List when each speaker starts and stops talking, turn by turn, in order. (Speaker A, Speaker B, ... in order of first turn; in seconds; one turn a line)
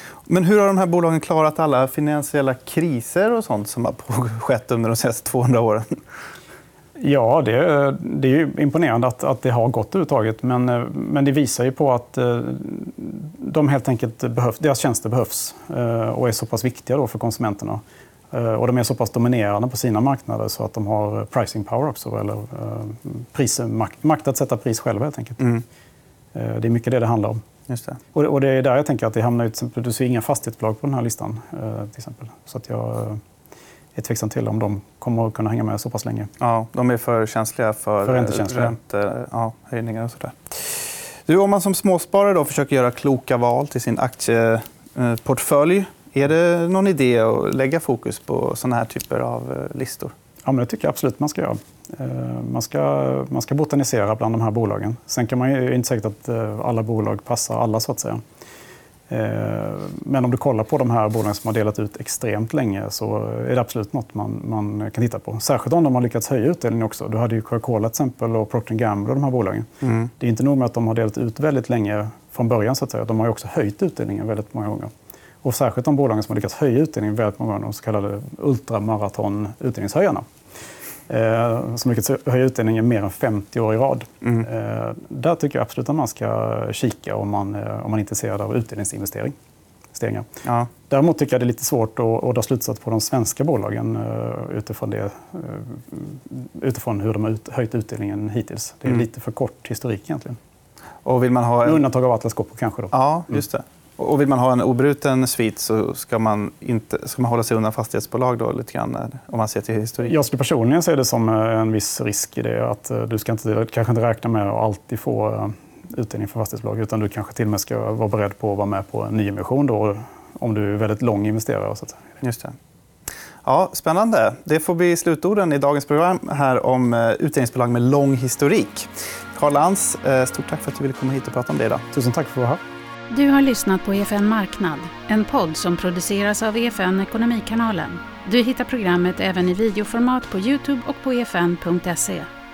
Speaker A: 0.3-6.0
Speaker B: 7.0-25.5
Speaker B: 26.3-27.4
Speaker A: 27.7-28.0
Speaker B: 28.1-33.2
Speaker B: 34.0-36.3
Speaker A: 36.4-50.1
Speaker B: 38.0-38.8
Speaker B: 50.4-58.2
Speaker B: 59.1-74.9
Speaker A: 69.8-70.1
Speaker B: 75.4-80.2
Speaker B: 81.1-89.3
Speaker B: 89.9-90.3
Speaker A: 90.4-90.7
Speaker B: 90.9-100.4
Speaker A: 101.0-101.8
Speaker B: 101.6-103.4
Speaker A: 102.9-110.1
Speaker B: 110.1-122.2
Speaker A: 122.2-122.5
Speaker A: 123.4-131.8
Speaker B: 131.9-132.6
Speaker C: 133.1-142.3